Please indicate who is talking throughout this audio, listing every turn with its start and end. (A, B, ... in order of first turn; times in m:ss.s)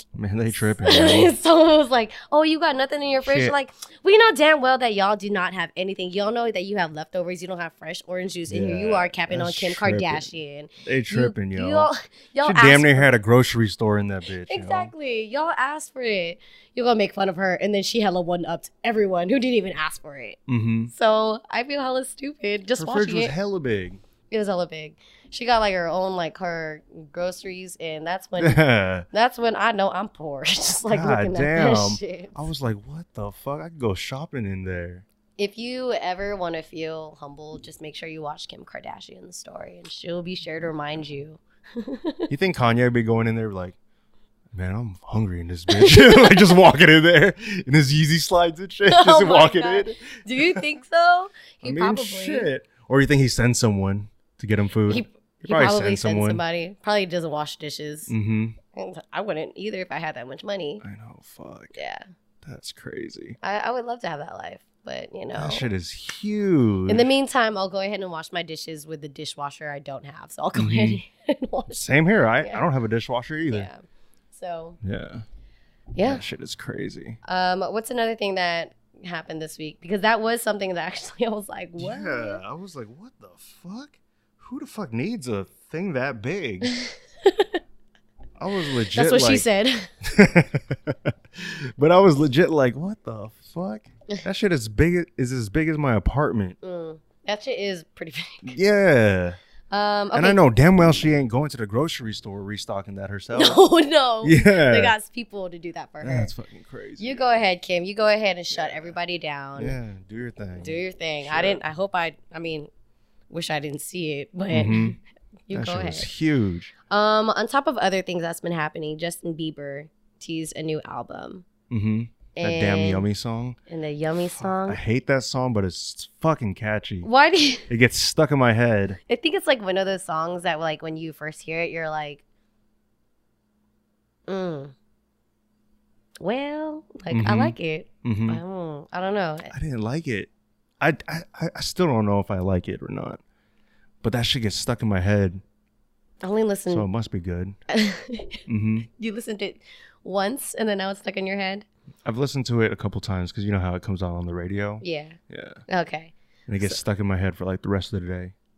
0:00.1-0:01.4 A
0:00.8-0:13.1 B
0:03.2-0:03.5 A
0:08.5-0:10.3 A
0:10.8-0:11.9 A
0:12.4-0:14.9 A
0:14.4-0:20.4 B
0:20.5-0:20.9 A
0:20.9-0:23.4 B
0:22.8-0:24.0 A
0:24.3-0:32.5 B
0:28.4-0:29.1 A
0:30.9-0:35.0 A
0:35.4-0:42.3 B
0:42.3-0:43.8 A
0:44.5-0:50.6 A
0:45.7-0:46.6 B
0:48.9-0:52.5 B
0:51.6-0:56.4 A
0:54.9-0:58.1 B
0:58.1-0:58.6 A
0:58.7-1:00.8 B
1:00.8-1:01.7 A
1:01.7-1:02.0 B
1:02.4-1:03.4 A
1:03.4-1:05.7 B
1:05.3-1:07.1 A
1:06.9-1:12.6 B
1:10.6-1:11.0 A
1:11.8-1:13.7 A
1:13.5-1:14.8 B
1:14.8-1:15.2 A
1:15.9-1:16.2 B
1:16.0-1:17.2 A
1:17.2-1:22.4 B
1:21.8-1:26.7 A
1:26.6-1:27.6 B
1:28.4-1:29.4 A
1:28.9-1:29.9 B
1:30.0-1:36.6 A
1:36.6-1:38.6 B
1:38.4-1:39.4 A
1:39.7-1:40.4 B
1:40.1-1:43.6 A
1:43.3-1:46.3 B
1:44.2-1:44.9 A
1:46.0-1:47.2 A
1:47.0-1:49.8 B
1:48.5-1:49.0 A
1:49.6-1:51.6 A
1:50.6-1:52.7 B
1:53.3-1:56.1 B
1:54.5-1:55.0 A
1:55.5-1:56.7 A
1:56.9-2:01.4 B
2:01.7-2:03.6 A
2:02.4-2:03.1 B
2:03.7-2:04.8 B
2:04.2-2:07.1 A
2:07.0-2:07.7 B
2:07.7-2:09.0 A
2:09.1-2:12.2 B
2:14.3-2:14.7 B
2:16.2-2:19.5 B
2:17.1-2:18.4 A
2:19.5-2:20.3 A
2:20.8-2:23.2 A
2:24.0-2:25.4 A
2:26.2-2:26.9 B
2:26.7-2:27.6 A
2:27.7-2:28.4 B
2:28.5-2:28.9 A
2:29.0-2:31.6 B
2:32.0-2:35.6 A
2:34.8-2:35.2 B
2:35.7-2:36.8 B
2:36.5-2:38.3 A